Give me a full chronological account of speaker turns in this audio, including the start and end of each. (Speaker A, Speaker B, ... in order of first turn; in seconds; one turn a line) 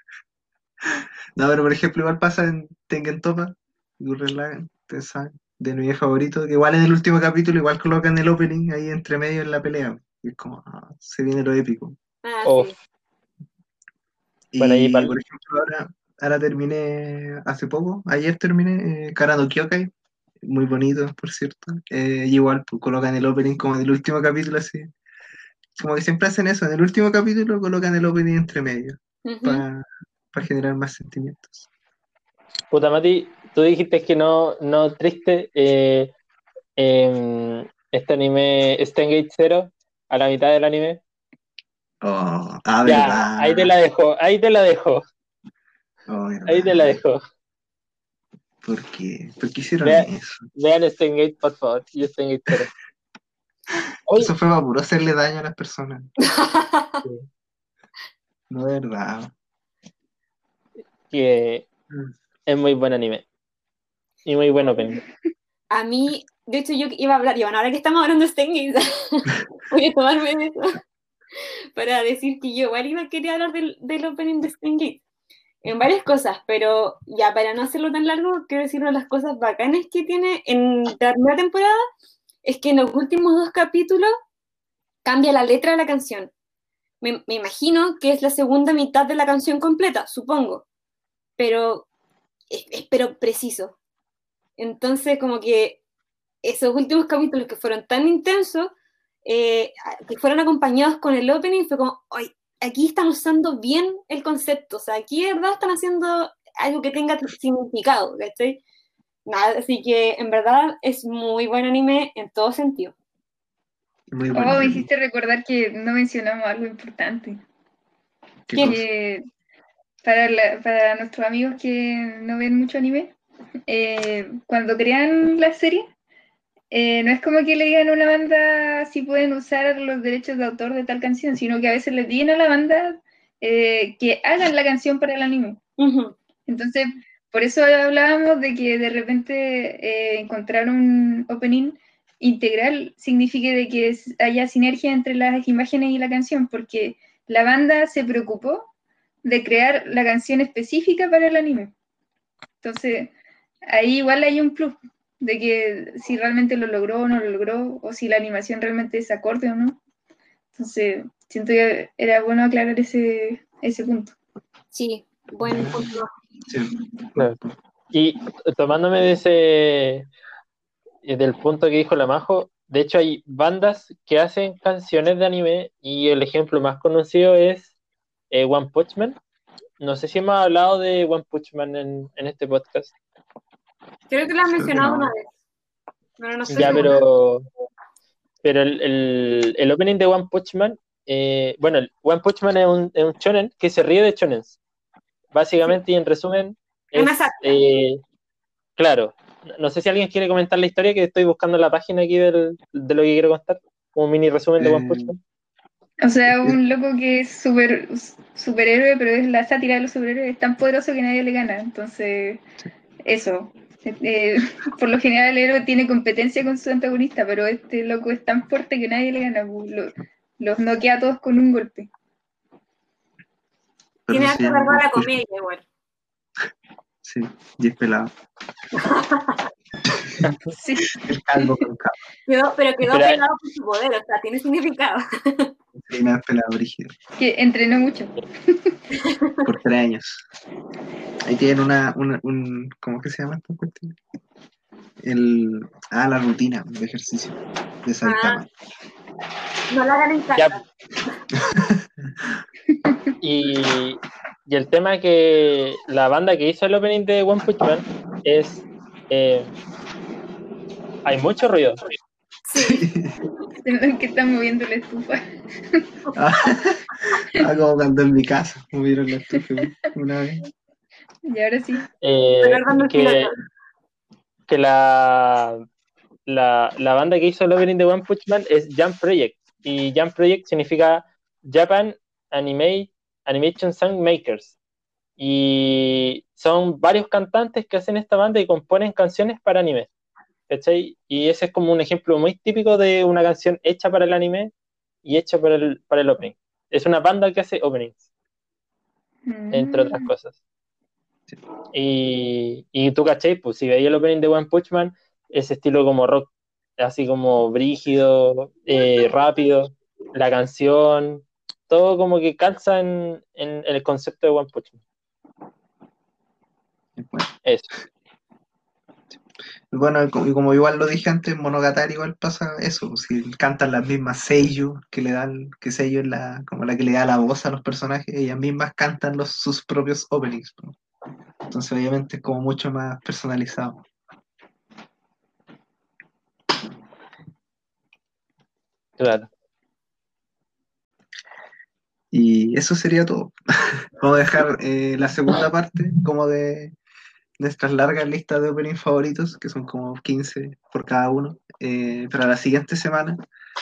Speaker A: 1.4-12.0
Speaker B: 12.2-12.8
Speaker C: 12.4-12.8
Speaker A: 14.5-19.9
Speaker C: 14.6-15.2
Speaker A: 20.4-24.9
Speaker A: 25.8-31.7
Speaker B: 29.2-29.6
Speaker C: 32.7-36.1
Speaker C: 36.8-41.0
Speaker A: 42.0-43.8
Speaker C: 42.8-45.0
Speaker A: 46.1-47.0
Speaker C: 46.5-47.2
Speaker A: 48.6-50.5
Speaker C: 49.9-52.7
Speaker C: 54.1-54.3
Speaker A: 54.2-56.1
Speaker B: 56.3-57.0
Speaker A: 58.5-59.3
Speaker C: 61.1-61.7
Speaker C: 62.5-63.3
Speaker C: 64.2-65.0
Speaker B: 65.7-70.8
Speaker B: 71.4-75.0
Speaker B: 75.6-81.8
Speaker B: 82.4-84.1
Speaker B: 85.0-86.3
Speaker B: 87.0-90.7
Speaker B: 91.4-91.9
Speaker B: 92.5-93.8
Speaker B: 94.6-95.8
Speaker B: 96.4-98.7
Speaker B: 99.2-108.6
Speaker B: 109.3-112.9
Speaker A: 114.1-114.9
Speaker D: 114.3-117.4
Speaker A: 118.5-118.8
Speaker D: 118.6-119.2
Speaker D: 120.0-123.2
Speaker D: 123.7-125.9
Speaker D: 126.7-135.6
Speaker B: 135.8-136.2
Speaker D: 136.5-148.7
Speaker D: 149.2-151.7
Speaker D: 152.6-153.1
Speaker D: 153.7-159.8
Speaker D: 160.6-164.2
Speaker B: 164.7-166.1
Speaker A: 165.4-167.5
Speaker C: 167.9-170.1
Speaker C: 171.1-177.7
Speaker C: 178.3-179.2
Speaker C: 179.8-182.9
Speaker B: 184.1-185.3
Speaker A: 184.4-185.1
Speaker B: 186.2-187.0
Speaker A: 186.5-186.9
Speaker C: 186.5-187.5
Speaker C: 188.4-194.6
Speaker C: 195.3-198.0
Speaker B: 196.9-197.6
Speaker C: 198.8-205.2
Speaker A: 204.6-205.2
Speaker D: 206.0-212.5
Speaker A: 206.3-206.6
Speaker D: 213.1-221.9
Speaker A: 224.1-225.2
Speaker B: 224.1-225.7
Speaker A: 227.0-228.1
Speaker B: 228.8-229.5
Speaker D: 230.6-231.5
Speaker A: 230.9-232.0
Speaker B: 232.3-235.5
Speaker C: 232.9-233.2
Speaker A: 235.8-236.9
Speaker D: 237.2-238.8
Speaker B: 239.0-239.4
Speaker A: 239.4-240.2
Speaker A: 241.2-244.0
Speaker A: 245.0-248.5
Speaker B: 248.0-248.4
Speaker B: 249.7-251.2
Speaker A: 251.4-251.8
Speaker C: 253.2-259.5
Speaker C: 261.0-261.8
Speaker B: 262.5-262.9
Speaker A: 262.6-263.2
Speaker D: 263.6-265.2
Speaker A: 266.1-270.4
Speaker D: 271.3-271.9
Speaker C: 272.0-273.3
Speaker B: 272.4-273.4
Speaker C: 274.5-275.6
Speaker C: 276.3-284.6
Speaker C: 285.2-289.9
Speaker C: 290.5-294.5
Speaker C: 295.0-298.0
Speaker D: 299.3-300.1
Speaker C: 299.5-300.3
Speaker C: 301.7-314.8
Speaker A: 317.0-317.3
Speaker A: 319.7-330.8
Speaker A: 331.5-333.9
Speaker C: 339.0-339.3
Speaker A: 342.1-346.8
Speaker A: 347.4-353.2